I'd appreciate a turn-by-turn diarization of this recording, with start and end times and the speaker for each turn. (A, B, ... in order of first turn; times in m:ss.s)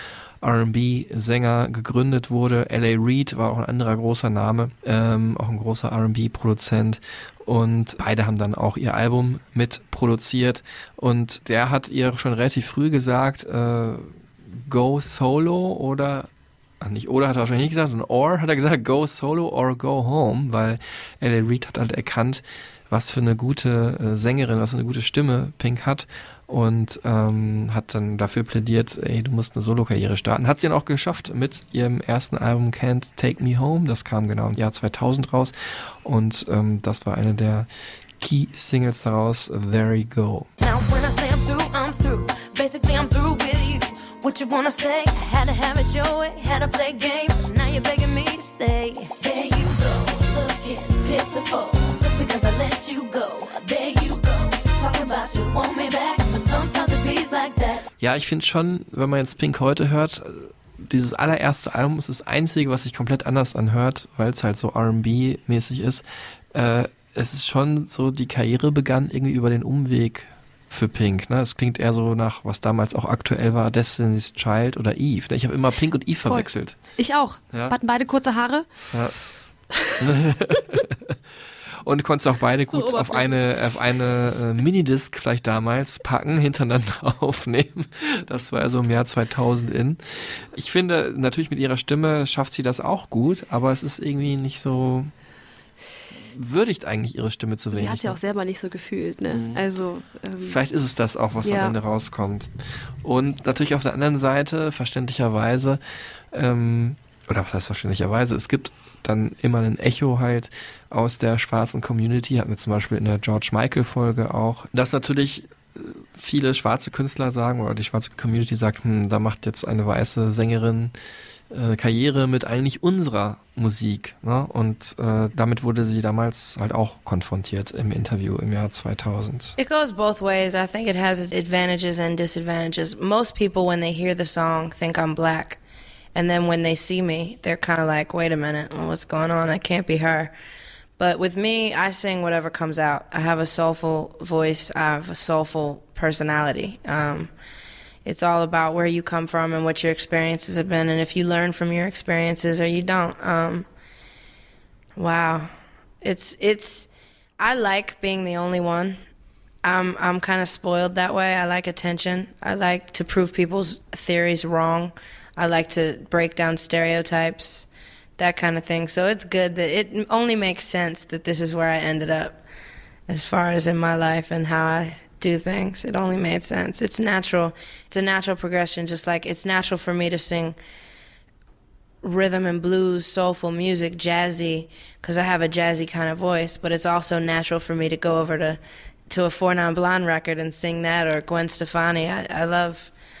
0:00.4-0:16.3 A
0:16.8-0:40.5 A
0:40.6-0:57.9 B
0:58.0-1:16.8 A
1:16.2-1:18.7 C
1:19.9-1:21.2 A
1:21.8-1:35.1 A
1:22.6-1:23.6 C
1:36.1-1:38.2 A
1:37.7-1:40.6 C
1:39.3-1:39.6 A
1:40.4-1:42.5 A
1:41.4-1:41.8 C
1:43.0-1:45.8 A
1:46.3-2:00.9 A
2:01.5-2:09.6 A
2:09.6-2:15.6 D
2:16.1-2:20.3 D
2:21.0-2:27.3 D
2:28.0-2:33.7 D
2:35.0-2:39.0 D
2:39.6-2:52.4 D
2:53.1-3:00.6 D
3:02.0-3:12.9 D